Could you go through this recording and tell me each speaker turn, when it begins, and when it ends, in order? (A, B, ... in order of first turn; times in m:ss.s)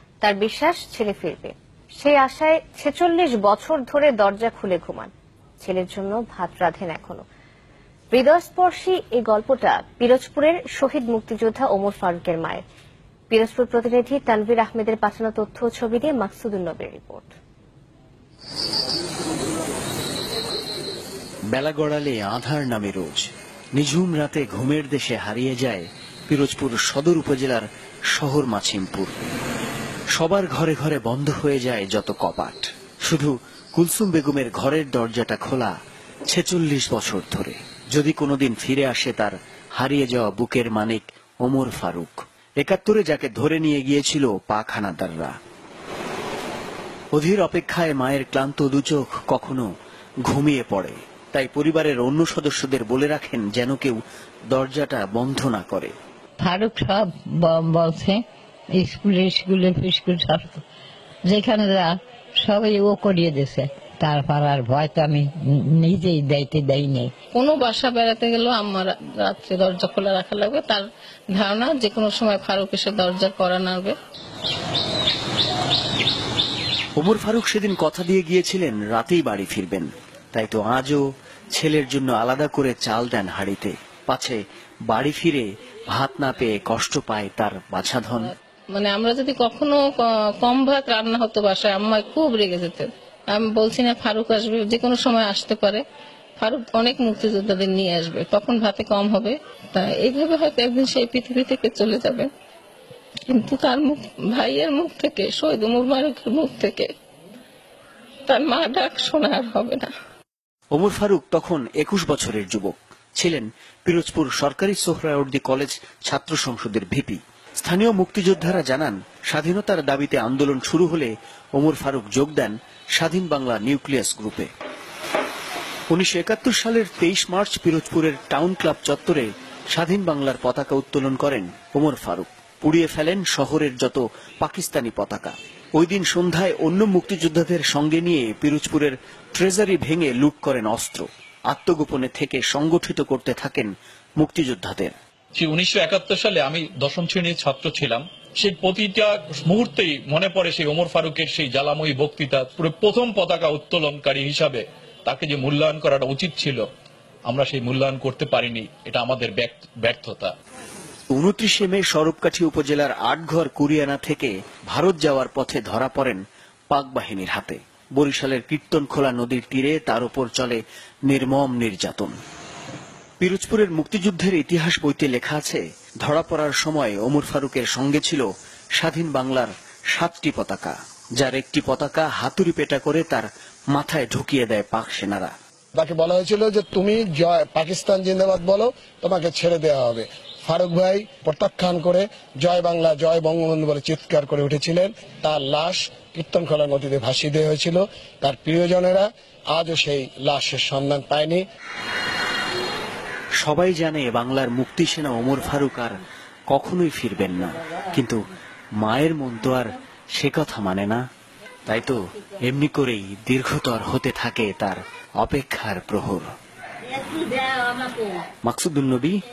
0:00.2-0:07.2 A
0:08.1-0:12.6 A
0:13.3-0:17.3 A
0:21.5-0:29.1 B
0:30.2-0:35.7 B
0:36.3-0:45.3 B
0:47.1-0:49.7 B
0:50.2-0:54.0 B
0:54.5-0:55.9 B
0:56.4-1:00.6 C
1:01.3-1:07.1 C
1:07.3-1:14.0 D
1:17.0-1:21.0 B
1:21.5-1:28.3 B
1:28.7-1:35.8 D
1:36.4-1:42.3 D
1:43.3-1:46.9 D
1:48.3-1:49.9 D
1:50.7-2:04.5 B
2:05.9-2:24.9 B
2:25.4-2:36.6 E
2:37.3-2:40.3 E
2:41.1-2:52.1 B
2:53.2-2:58.2 B
2:58.8-3:05.3 B
3:05.8-3:21.4 F
3:23.4-3:28.2 B
3:28.8-3:31.0 B
3:31.7-3:36.3 B
3:38.4-3:39.2 B